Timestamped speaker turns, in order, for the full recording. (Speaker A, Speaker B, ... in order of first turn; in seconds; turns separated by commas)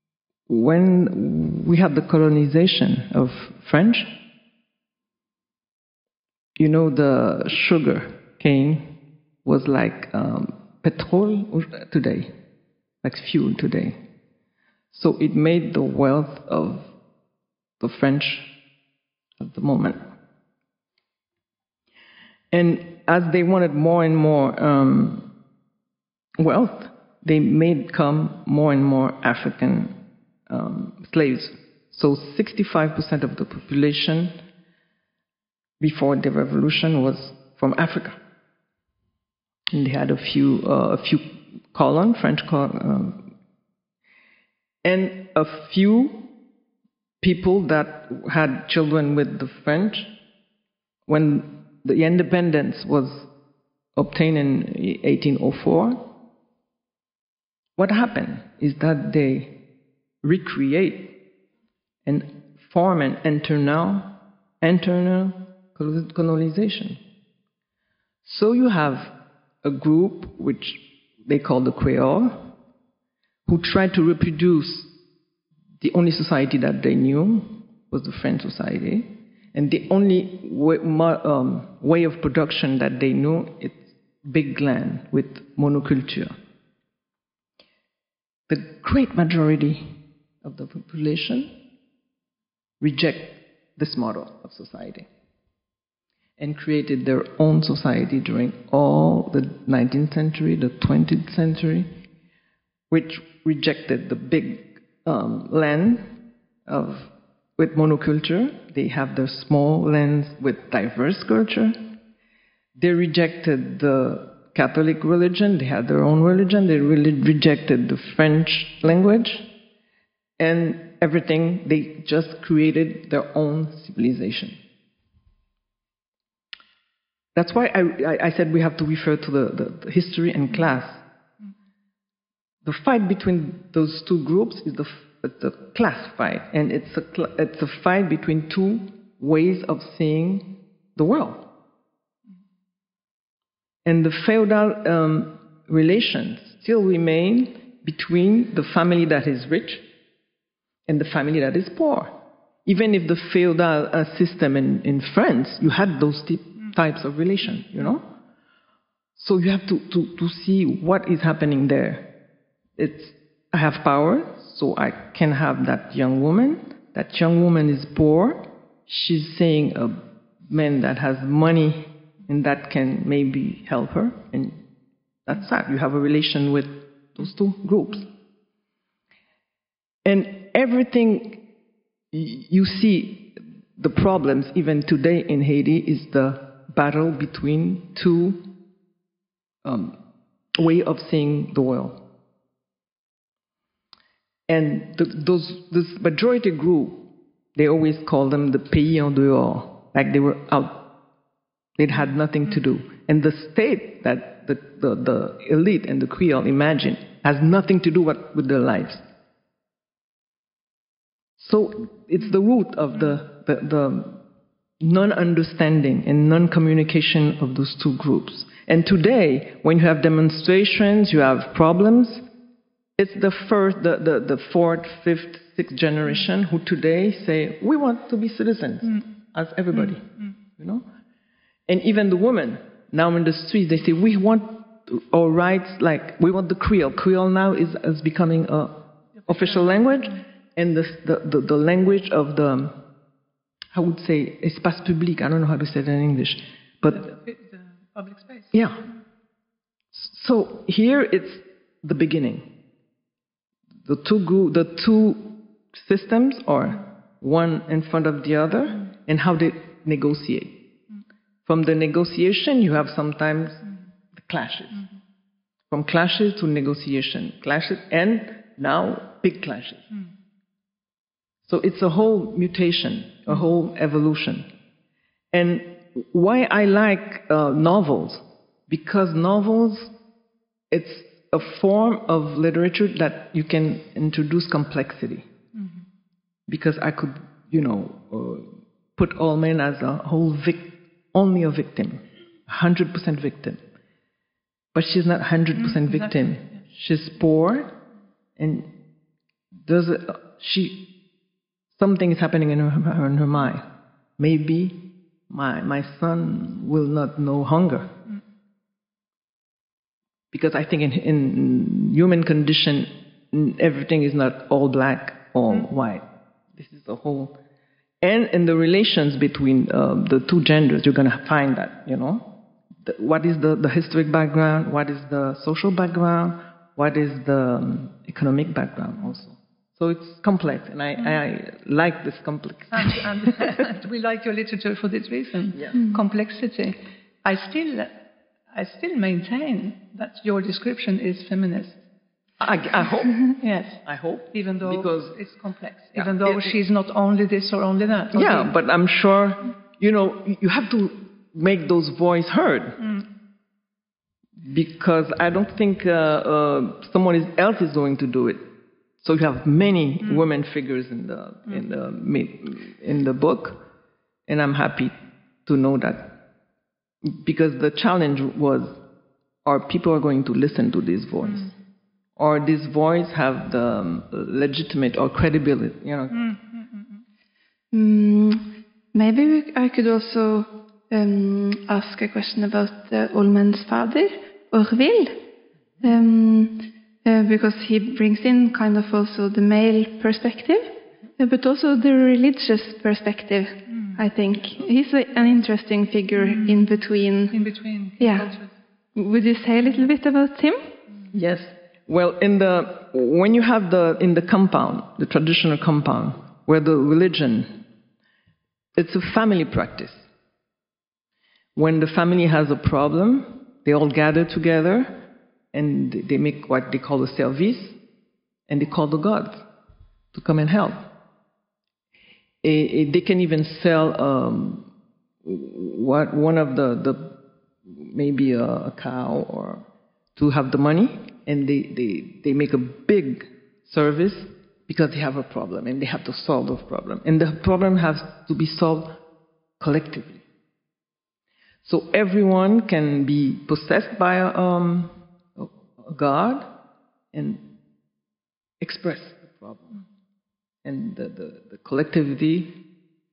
Speaker A: 0.5-4.2, Speaker A: 6.6-8.9, Speaker A: 9.4-12.3, Speaker A: 13.0-14.0, Speaker A: 14.9-16.9, Speaker A: 17.8-18.5, Speaker A: 19.4-20.0, Speaker A: 22.5-25.3, Speaker A: 26.4-30.0, Speaker A: 30.5-34.4, Speaker A: 35.8-38.2, Speaker A: 39.7-43.2, Speaker A: 44.8-46.3, Speaker A: 47.2-50.1, Speaker A: 51.1-53.3, Speaker A: 54.0-56.1, Speaker A: 57.8-59.5, Speaker A: 60.2-61.1, Speaker A: 62.0-67.0, Speaker A: 68.2-72.5, Speaker A: 73.5-74.9, Speaker A: 75.8-86.4, Speaker A: 88.5-91.5, Speaker A: 92.8-95.1, Speaker A: 96.4-101.9, Speaker A: 102.9-106.1, Speaker A: 106.7-111.8, Speaker A: 112.8-119.5, Speaker A: 120.4-124.6, Speaker A: 127.3-131.0, Speaker A: 132.7-141.4, Speaker A: 143.8-149.8, Speaker A: 150.9-158.1, Speaker A: 159.2-162.1, Speaker A: 162.8-174.6, Speaker A: 175.3-178.1, Speaker A: 180.0-181.4, Speaker A: 182.1-188.4, Speaker A: 189.6-190.0, Speaker A: 190.5-192.0, Speaker A: 194.5-197.0, Speaker A: 197.6-200.8, Speaker A: 201.8-209.1, Speaker A: 211.4-214.2, Speaker A: 214.8-222.3, Speaker A: 223.0-230.8, Speaker A: 231.7-242.8, Speaker B: 239.2-239.8, Speaker A: 243.7-247.0, Speaker B: 246.9-248.5, Speaker A: 248.5-248.8, Speaker A: 249.9-252.5, Speaker A: 253.8-260.6, Speaker A: 261.5-263.6, Speaker A: 264.1-264.9, Speaker A: 265.7-269.9, Speaker A: 271.4-274.5, Speaker A: 275.3-279.9, Speaker A: 280.7-285.3, Speaker A: 286.5-293.6, Speaker A: 294.7-297.7, Speaker B: 295.6-296.0, Speaker A: 298.4-298.7, Speaker A: 299.6-300.8, Speaker A: 301.7-303.6, Speaker A: 304.2-307.9, Speaker A: 310.3-317.4, Speaker A: 318.0-322.3, Speaker A: 322.8-333.6, Speaker B: 332.7-337.9, Speaker B: 338.5-341.8, Speaker A: 342.4-343.3, Speaker B: 343.4-343.8, Speaker A: 343.9-345.2, Speaker B: 344.3-348.5, Speaker A: 345.9-346.6, Speaker A: 348.1-352.8, Speaker B: 352.8-353.1, Speaker A: 354.4-358.5, Speaker A: 359.0-363.6, Speaker A: 364.3-364.9, Speaker A: 365.4-366.1, Speaker A: 367.1-368.8, Speaker A: 369.4-371.5, Speaker A: 372.2-376.2, Speaker B: 376.1-377.0, Speaker C: 377.7-385.2, Speaker C: 385.8-397.4, Speaker B: 393.7-394.0, Speaker B: 396.3-396.7, Speaker B: 397.3-398.5, Speaker C: 398.0-398.3, Speaker C: 398.9-400.7, Speaker A: 401.1-407.5, Speaker A: 408.8-410.1, Speaker A: 411.6-414.9, Speaker A: 415.5-417.8, Speaker A: 418.5-419.4, Speaker A: 420.1-420.9, Speaker A: 422.4-424.7, Speaker A: 425.2-427.1, Speaker A: 427.7-429.6, Speaker A: 430.2-439.0, Speaker A: 439.6-440.2, Speaker A: 441.6-446.5, Speaker A: 447.1-447.4, Speaker A: 448.6-449.8, Speaker A: 450.6-452.5